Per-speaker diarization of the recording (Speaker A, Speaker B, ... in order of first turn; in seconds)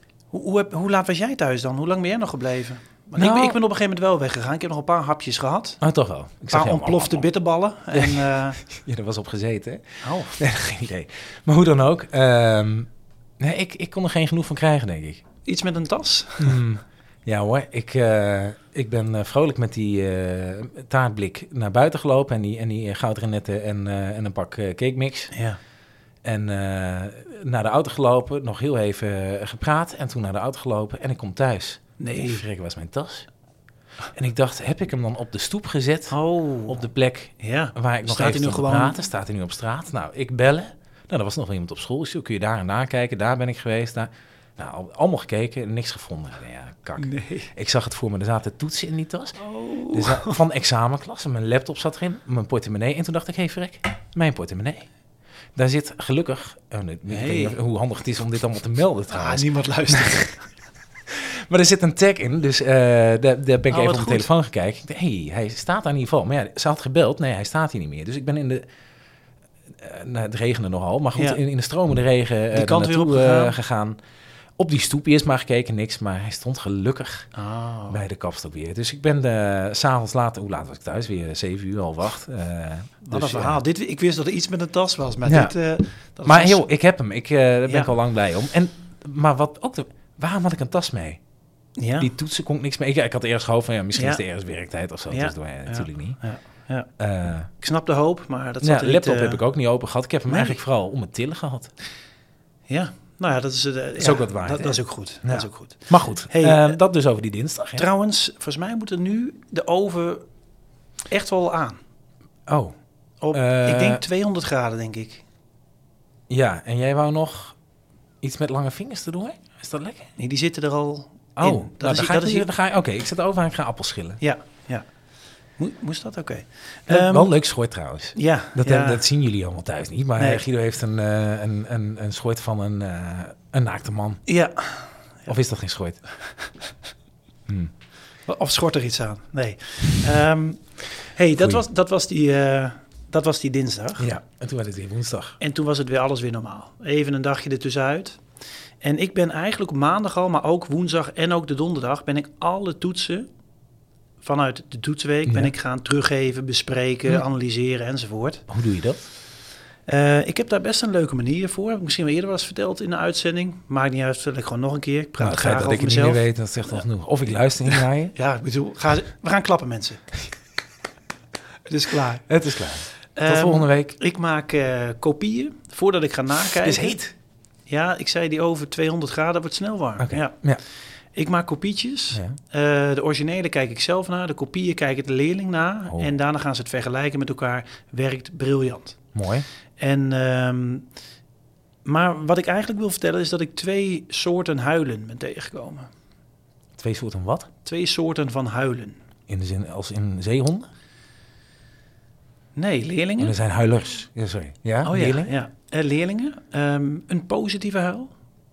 Speaker A: 0.3-5.8, 6.5-8.6, 10.0-10.4, 15.4-16.6, 25.3-25.6, 32.0-32.4, 36.1-36.8, 37.4-39.0, 47.0-47.5, 49.4-50.4, 57.1-57.6, 59.1-60.4, 63.7-64.3, 71.2-71.4, 72.5-73.6, 77.3-78.0, 83.1-86.7, 87.7-87.9, 91.8-92.1, 93.9-94.2, 95.1-96.9, 97.5-99.4, 100.3-100.6, 102.7-106.8, 107.8-110.2, 111.1-111.8, 113.2-115.2, 120.2-122.5, 124.2-124.9, 125.6-127.3, 128.1-129.1, 130.2-130.4, 134.2-135.4, 138.2-144.1, 145.4-148.2, 148.8-153.3, 154.2-158.4, 159.9-166.8, 167.6-170.1, 171.7-172.3, 173.1-177.0, 177.7-180.5, 181.1-189.0, 189.8-190.9, 191.8-195.9, 197.6-199.0, 202.5-203.4, 204.8-208.1
Speaker B: 3.1-3.5, 5.8-7.3, 7.9-15.2, 16.4-25.3, 26.2-33.3, 34.1-54.9, 55.5-60.3, 61.1-68.6, 69.8-74.0, 74.6-77.3, 77.9-83.6, 85.2-85.5, 86.2-91.2, 92.0-96.2, 97.0-97.5, 98.6-101.7, 104.0-107.8, 112.5-112.7, 113.3-114.0, 116.3-117.5, 118.2-120.1, 121.4-124.2, 126.9-134.2, 135.3-136.0, 144.0-145.4, 155.2-155.5, 158.5-159.1, 165.2-168.1, 172.3-173.9, 176.4-177.1, 180.0-180.6, 189.1-189.5, 196.8-197.5, 199.3-200.7, 203.2-205.3